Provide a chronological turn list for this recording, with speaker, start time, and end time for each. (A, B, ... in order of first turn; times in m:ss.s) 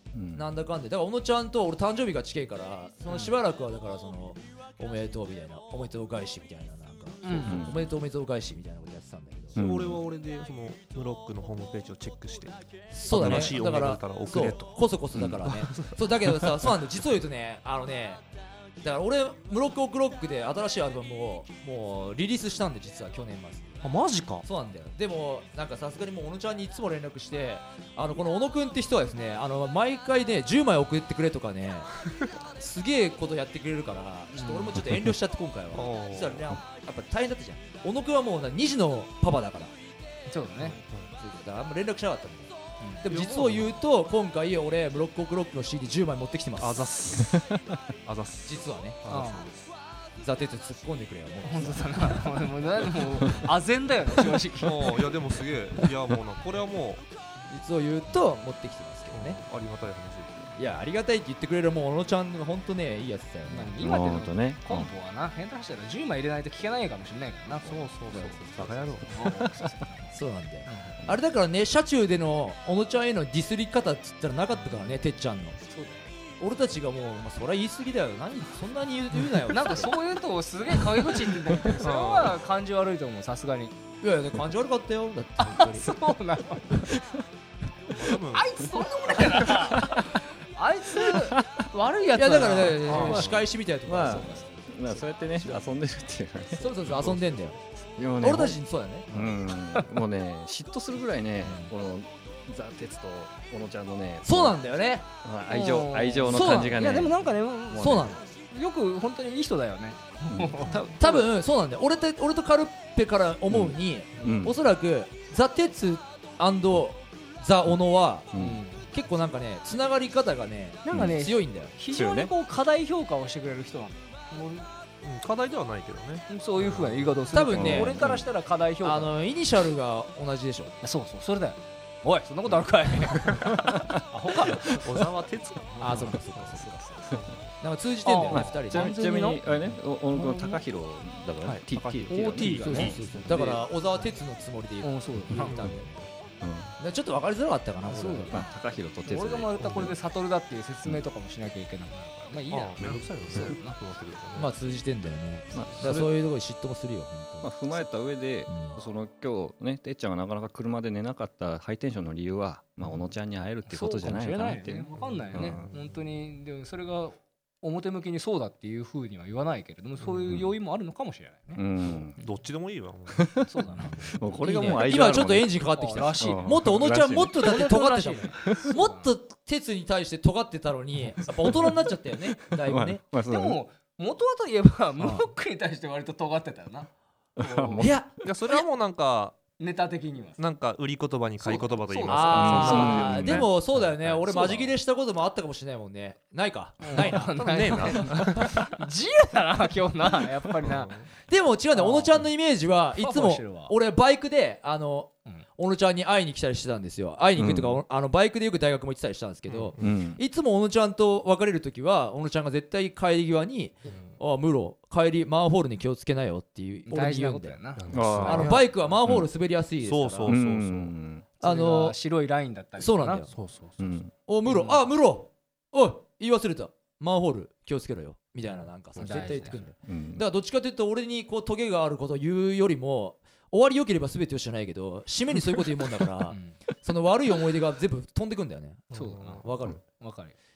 0:00.1-0:00.4 A
0:00.3-0:09.7 B
0:07.2-0:07.6 C
0:07.4-0:07.8 A
0:09.6-0:10.0 A
0:09.6-0:12.6 D
0:12.9-0:18.2 B
0:13.1-0:14.7 D
0:13.1-0:13.5 A
0:15.2-0:15.4 A
0:15.4-0:16.0 D
0:18.8-0:23.9 B
0:23.8-0:24.5 D
0:24.4-0:31.9 B
0:32.6-0:39.7 B
0:34.3-0:34.9 C
0:35.7-0:36.6 D
0:40.3-0:40.8 C
0:40.6-0:41.1 D
0:41.2-0:46.9 B
0:43.1-0:43.8 D
0:46.6-0:47.4 D
0:47.3-0:47.5 A
0:48.0-0:49.6 D
0:48.5-0:49.0 B
0:49.1-0:49.5 C
0:50.2-0:52.2 B
0:51.4-0:55.2 C
0:54.6-0:57.0 D
0:57.5-0:59.4 B
0:59.1-1:00.6 D
1:00.6-1:03.8 B
1:03.5-1:10.1 C
1:03.8-1:04.9 A
1:07.6-1:09.5 D
1:09.3-1:09.7 A
1:10.1-1:15.6 B
1:10.7-1:11.0 C
1:15.6-1:16.1 C
1:16.4-1:20.0 B
1:19.5-1:23.8 C
1:21.8-1:22.4 D
1:24.0-1:25.9 B
1:25.4-1:26.9 C
1:27.9-1:28.6 D
1:28.3-1:33.4 C
1:31.1-1:31.7 A
1:32.2-1:34.6 B
1:32.8-1:33.3 D
1:33.0-1:37.4 A
1:34.0-1:34.5 C
1:36.6-1:37.6 B
1:38.0-1:44.6 A
1:38.2-1:39.3 B
1:44.2-1:45.1 B
1:45.2-1:48.1 A
1:45.5-1:51.2 C
1:46.3-1:46.8 B
1:47.7-1:48.2 B
1:50.3-1:50.8 A
1:50.6-1:51.2 D
1:51.0-1:58.3 B
1:53.5-1:54.6 A
1:58.3-1:58.6 A
1:58.4-1:58.8 C
1:58.9-2:01.7 B
2:00.8-2:04.4 C
2:00.9-2:01.2 A
2:01.9-2:02.3 A
2:04.3-2:07.7 D
2:06.3-2:09.1 C
2:07.3-2:08.0 B
2:07.5-2:08.3 A
2:08.8-2:10.7 B
2:10.8-2:15.1 C
2:13.2-2:13.5 D
2:13.5-2:14.0 A
2:14.2-2:14.6 B
2:14.5-2:16.2 D
2:15.7-2:17.2 C
2:15.8-2:16.8 B
2:17.1-2:17.5 D
2:17.6-2:19.0 B
2:18.0-2:19.4 C
2:18.3-2:23.0 A
2:20.2-2:20.6 D
2:21.4-2:23.6 D
2:22.1-2:23.6 C
2:22.4-2:25.9 B
2:24.8-2:25.9 C
2:25.4-2:25.9 D
2:26.4-2:26.7 A
2:26.8-2:28.4 B
2:27.8-2:28.4 C
2:28.3-2:29.9 A
2:29.0-2:33.8 C
2:32.5-2:34.5 D
2:34.4-2:37.5 B
2:35.5-2:36.1 A
2:37.4-2:45.6 A
2:38.5-2:38.8 B
2:43.7-2:51.6 C
2:45.0-2:46.0 D
2:50.0-2:50.4 D
2:51.6-2:52.2 A
2:52.0-2:53.5 D
2:53.2-2:55.6 A
2:53.5-2:54.2 C
2:54.4-3:03.0 B
2:55.8-2:56.6 C
2:56.2-2:57.5 A
2:57.4-2:59.1 C
3:01.5-3:01.8 A
3:02.4-3:03.6 A
3:03.3-3:08.0 C
3:07.4-3:07.9 A
3:07.8-3:08.6 B
3:08.2-3:09.5 D
3:09.6-3:10.4 C
3:10.4-3:13.5 D
3:11.4-3:13.4 C
3:12.1-3:18.5 B
3:12.4-3:13.5 A
3:14.3-3:14.6 D
3:16.8-3:21.1 C
3:16.9-3:18.7 D
3:20.6-3:21.1 D
3:21.3-3:37.6 B
3:21.7-3:22.3 C
3:23.0-3:23.7 C
3:27.4-3:27.8 A
3:29.5-3:30.0 D
3:29.8-3:30.2 A
3:33.9-3:34.2 D
3:36.9-3:38.0 C
3:37.8-3:38.7 D
3:37.9-3:39.3 A
3:38.2-3:40.4 B
3:39.8-3:41.0 D
3:40.2-3:41.3 A
3:41.4-3:42.0 B
3:41.4-3:43.3 C
3:42.8-3:43.3 B
3:43.3-3:44.1 D
3:43.8-3:44.1 A
3:44.3-3:59.8 B
3:44.5-3:44.8 C
3:49.0-3:49.7 C
3:49.8-3:50.2 A
3:56.3-3:56.5 C
3:58.9-3:59.7 D
3:58.9-4:00.3 C